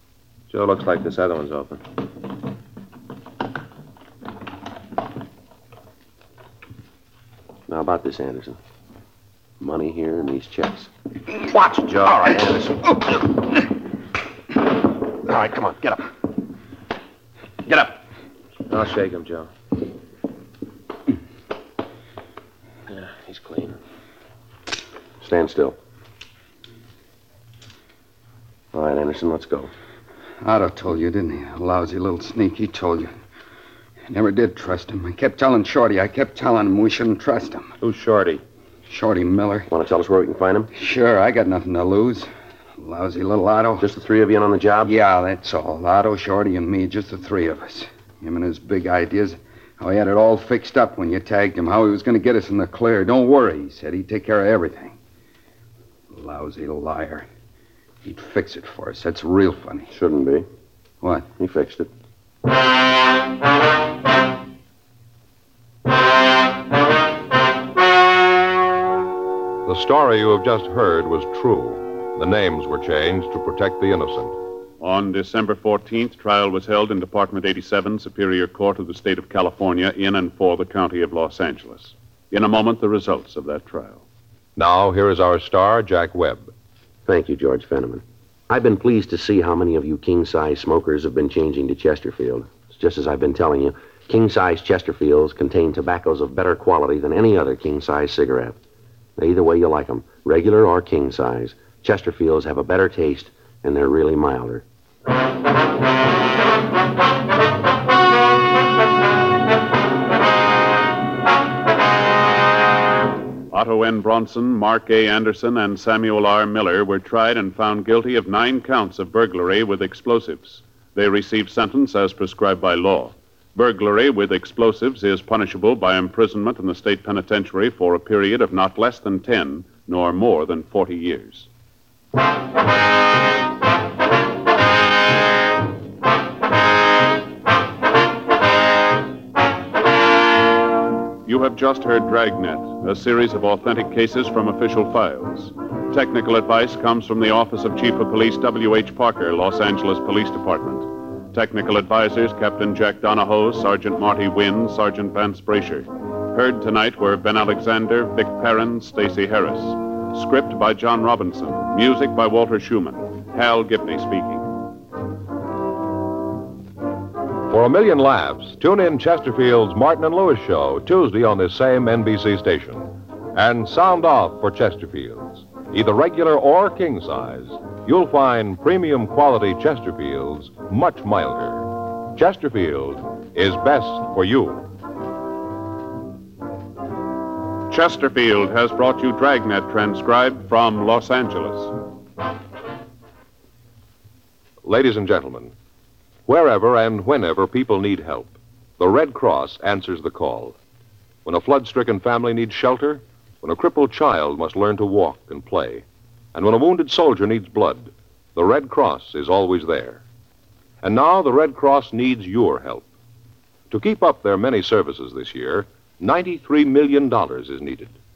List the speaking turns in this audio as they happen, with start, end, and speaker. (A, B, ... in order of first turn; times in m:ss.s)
0:00.5-0:01.8 A
0:07.7-0:08.6 B
0:09.6-0:13.4 B
0:15.2-0:16.0 B
0:17.7-0:17.9 B
0:18.7-0:19.5 A
0:22.9-0:23.8 A
0:25.2-0:25.8 B
0:28.7-0:29.7 B
0:30.4-0:33.1 C
0:34.1-0:37.7 C
0:37.8-0:38.4 A
0:38.9-0:39.7 C
0:39.7-0:40.7 B
0:40.7-0:43.9 C
0:43.8-0:44.9 B
0:44.8-0:55.0 C
0:56.1-0:57.3 C
0:58.0-0:59.9 C
0:59.9-1:00.4 B
1:01.0-1:01.3 C
1:01.4-1:01.9 B
1:09.6-1:14.3 D
1:14.8-1:24.0 E
1:24.6-1:26.5 D
1:27.0-1:38.6 B
1:39.2-1:44.6 B
1:53.5-2:11.5 E
2:21.2-2:44.5 E
2:47.5-3:04.6 D
3:07.7-3:11.7 E
3:14.6-3:15.5 D
3:16.3-3:20.6 D
3:21.2-3:30.0 D
3:30.8-3:32.9 D
3:33.7-3:37.9 D